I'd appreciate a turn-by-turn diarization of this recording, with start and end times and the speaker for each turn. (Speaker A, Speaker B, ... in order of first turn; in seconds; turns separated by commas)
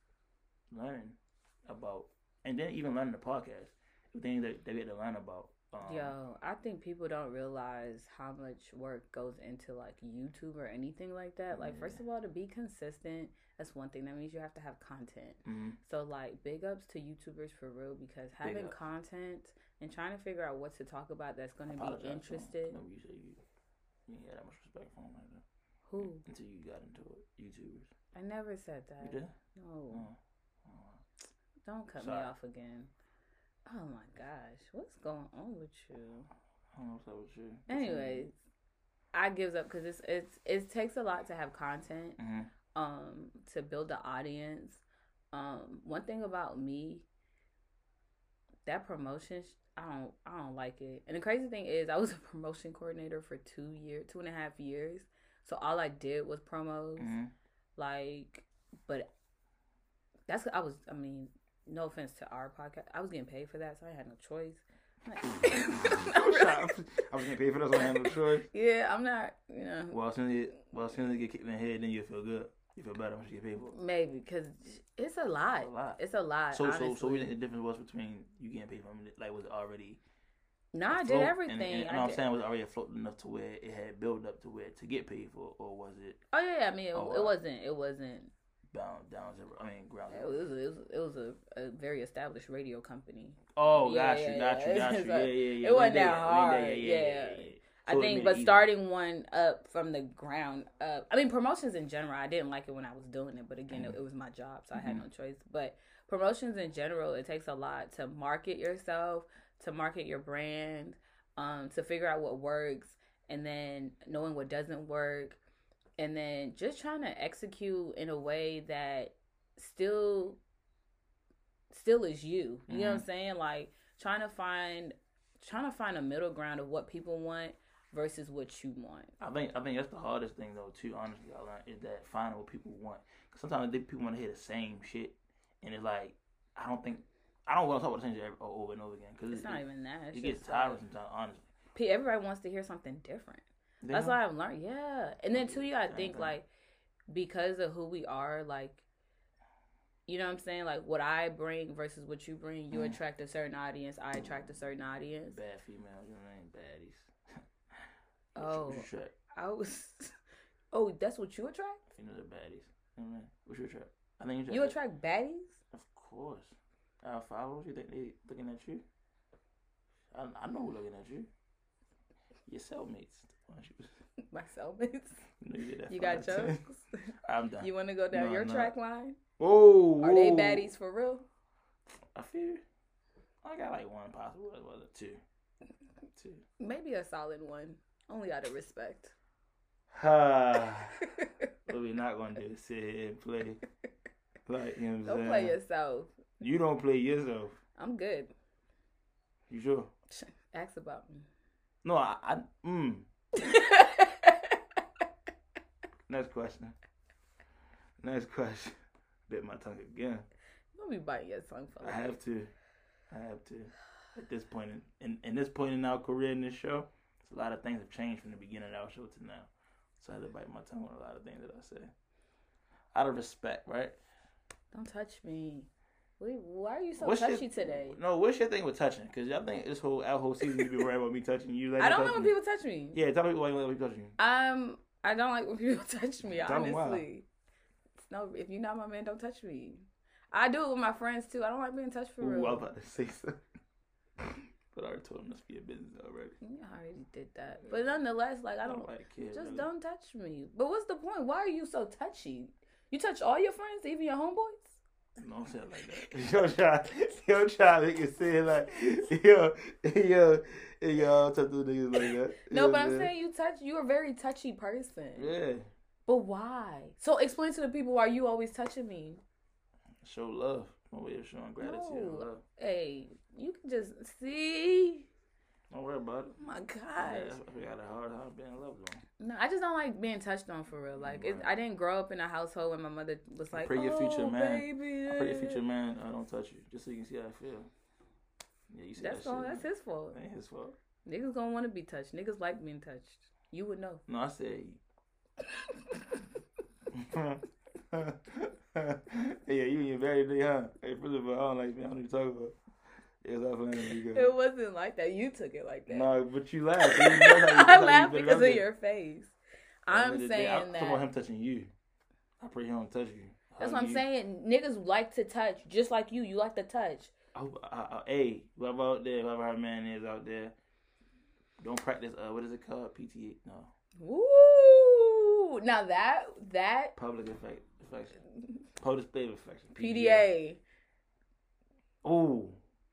Speaker A: 0.7-6.1, Speaker B: 5.8-22.8, Speaker A: 11.5-12.0, Speaker A: 15.4-15.8, Speaker A: 18.4-18.8, Speaker A: 21.7-23.4, Speaker A: 24.1-25.4, Speaker B: 25.9-26.3, Speaker A: 26.0-27.9, Speaker B: 28.1-30.1, Speaker A: 29.0-29.3, Speaker A: 29.9-31.0, Speaker B: 31.6-32.9, Speaker A: 32.0-32.3, Speaker B: 33.7-36.3, Speaker A: 36.7-38.3, Speaker B: 37.7-38.4, Speaker B: 39.1-42.2, Speaker A: 42.2-42.5, Speaker B: 42.7-47.1, Speaker B: 48.7-57.1, Speaker A: 57.0-57.3, Speaker B: 57.8-59.1, Speaker B: 60.3-66.8, Speaker A: 65.8-68.5, Speaker B: 67.8-70.0, Speaker A: 69.9-73.8, Speaker B: 73.7-77.3, Speaker A: 75.6-76.0, Speaker A: 76.5-80.0, Speaker B: 80.7-82.2, Speaker A: 80.9-86.2, Speaker B: 86.3-88.3, Speaker A: 86.9-87.3, Speaker A: 88.7-90.5, Speaker B: 90.1-115.4, Speaker A: 93.5-98.7, Speaker A: 103.7-104.0, Speaker A: 104.7-105.0, Speaker B: 116.0-120.4, Speaker B: 121.7-129.1, Speaker A: 122.7-123.0, Speaker A: 129.2-141.5, Speaker B: 139.3-140.8, Speaker B: 141.8-146.5, Speaker A: 143.8-144.2, Speaker A: 145.3-146.4, Speaker B: 147.1-148.8, Speaker B: 150.1-155.4, Speaker A: 152.7-153.0, Speaker A: 155.3-159.2, Speaker B: 158.4-160.2, Speaker B: 160.7-161.8, Speaker A: 161.9-164.8, Speaker B: 164.5-165.6, Speaker A: 165.7-168.8, Speaker A: 170.1-171.3, Speaker A: 172.5-173.9, Speaker B: 174.2-175.2, Speaker A: 175.4-176.6, Speaker B: 175.9-179.2, Speaker A: 177.2-178.7, Speaker A: 179.4-180.7, Speaker B: 180.0-181.3, Speaker A: 182.1-182.6, Speaker A: 183.4-185.2, Speaker A: 186.2-186.4, Speaker B: 186.6-189.1, Speaker A: 189.9-191.0, Speaker B: 191.0-191.5, Speaker A: 191.7-193.6, Speaker A: 194.5-195.6, Speaker B: 195.0-196.1, Speaker A: 196.4-197.6, Speaker B: 197.8-198.3, Speaker A: 199.5-199.9, Speaker B: 200.1-201.3, Speaker A: 201.8-203.1, Speaker B: 203.3-204.6, Speaker A: 206.1-206.8, Speaker A: 208.0-208.8, Speaker A: 209.3-210.3, Speaker B: 210.8-212.2, Speaker A: 211.8-212.5, Speaker A: 213.1-221.9, Speaker A: 222.9-224.0, Speaker B: 224.7-228.0, Speaker A: 227.0-232.3, Speaker B: 231.8-233.0, Speaker A: 232.9-234.2, Speaker B: 234.2-237.3, Speaker A: 236.3-237.0, Speaker B: 238.0-242.7, Speaker A: 242.2-243.4, Speaker A: 244.2-246.4, Speaker B: 246.4-254.8, Speaker A: 247.7-248.0, Speaker A: 248.6-249.7, Speaker A: 255.2-263.1, Speaker B: 262.4-265.3, Speaker A: 265.2-265.7, Speaker B: 266.1-269.2, Speaker A: 270.0-272.4, Speaker B: 271.6-275.1, Speaker A: 275.7-276.4, Speaker B: 276.4-277.4, Speaker A: 277.0-279.0, Speaker B: 279.2-285.6, Speaker A: 281.0-281.5, Speaker A: 283.5-287.7, Speaker A: 288.7-290.8, Speaker B: 289.0-290.2, Speaker B: 291.1-294.0, Speaker A: 294.1-294.8, Speaker B: 295.5-296.2, Speaker A: 296.9-302.6, Speaker A: 303.2-304.3, Speaker B: 304.0-306.1, Speaker A: 305.9-308.6, Speaker B: 306.8-309.3, Speaker B: 309.9-311.1, Speaker A: 309.9-311.7, Speaker A: 312.4-314.0, Speaker B: 313.6-317.1, Speaker A: 317.3-320.5, Speaker A: 321.6-323.7, Speaker B: 324.0-326.9, Speaker A: 327.0-328.2, Speaker A: 328.8-330.3, Speaker B: 329.8-330.6, Speaker A: 332.0-332.6